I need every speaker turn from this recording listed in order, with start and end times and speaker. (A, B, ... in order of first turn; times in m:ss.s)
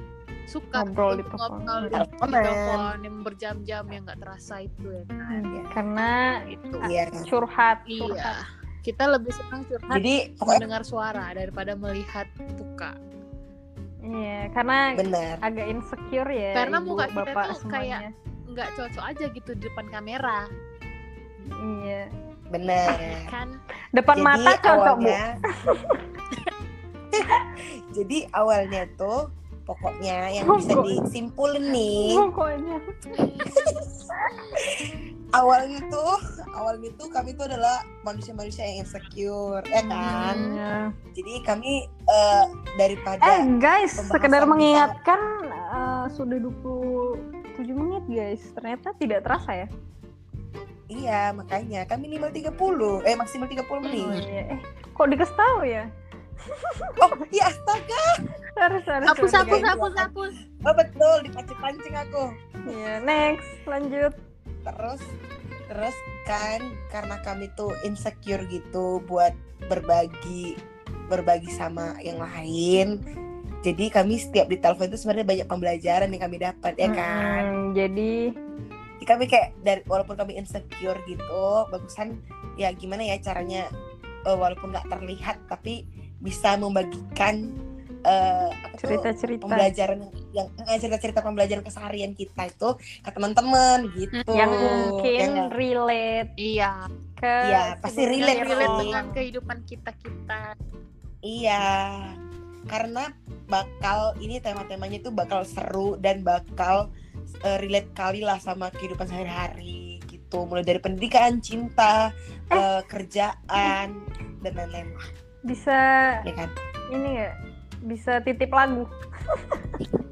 0:00.5-0:05.5 A
0:00.7-0:02.0 B
0:01.9-0:02.9 C
0:05.3-0:08.4 B
0:05.5-0:05.8 C
0:06.5-0:06.8 A
0:06.8-0:07.3 C
0:07.9-0:12.9 A
0:09.9-0:10.6 C
0:14.1-0:18.1 B
0:15.0-0:15.4 C
0:16.5-0:20.5 A
0:21.5-0:22.1 B
0:22.5-0:23.3 C
0:22.9-0:23.6 A
0:23.9-0:26.0 B
0:24.1-0:25.3 C
0:27.1-0:32.2 C
0:27.2-0:27.5 B
0:30.4-0:31.0 B
0:31.8-0:33.5 B
0:33.4-0:33.9 C
0:34.1-0:34.6 B
0:34.7-0:40.4 C
0:39.8-0:40.9 B
0:40.2-0:40.6 A
0:41.1-0:44.9 C
0:43.2-0:49.7 B
0:50.9-0:54.2 C
0:53.9-0:55.8 B
0:54.0-0:54.2 A
0:56.5-0:57.1 B
0:57.0-0:58.1 C
0:58.6-0:59.7 B
0:59.0-1:02.4 C
0:59.1-1:00.3 A
1:02.6-1:04.2 B
1:04.6-1:05.0 C
1:05.7-1:10.6 C
1:11.1-1:12.9 C
1:13.6-1:17.5 C
1:16.8-1:18.2 B
1:19.0-1:23.6 C
1:24.3-1:27.4 C
1:28.1-1:35.5 C
1:28.8-1:29.7 B
1:34.1-1:34.9 A
1:34.3-1:36.3 B
1:36.4-1:36.9 A
1:37.2-1:39.2 B
1:37.4-1:38.9 C
1:38.2-1:40.5 A
1:41.2-1:42.2 C
1:42.7-1:46.8 C
1:47.4-1:55.0 C
1:55.5-1:56.2 B
1:56.2-1:56.5 C
1:56.9-1:57.3 B
1:57.9-1:59.8 B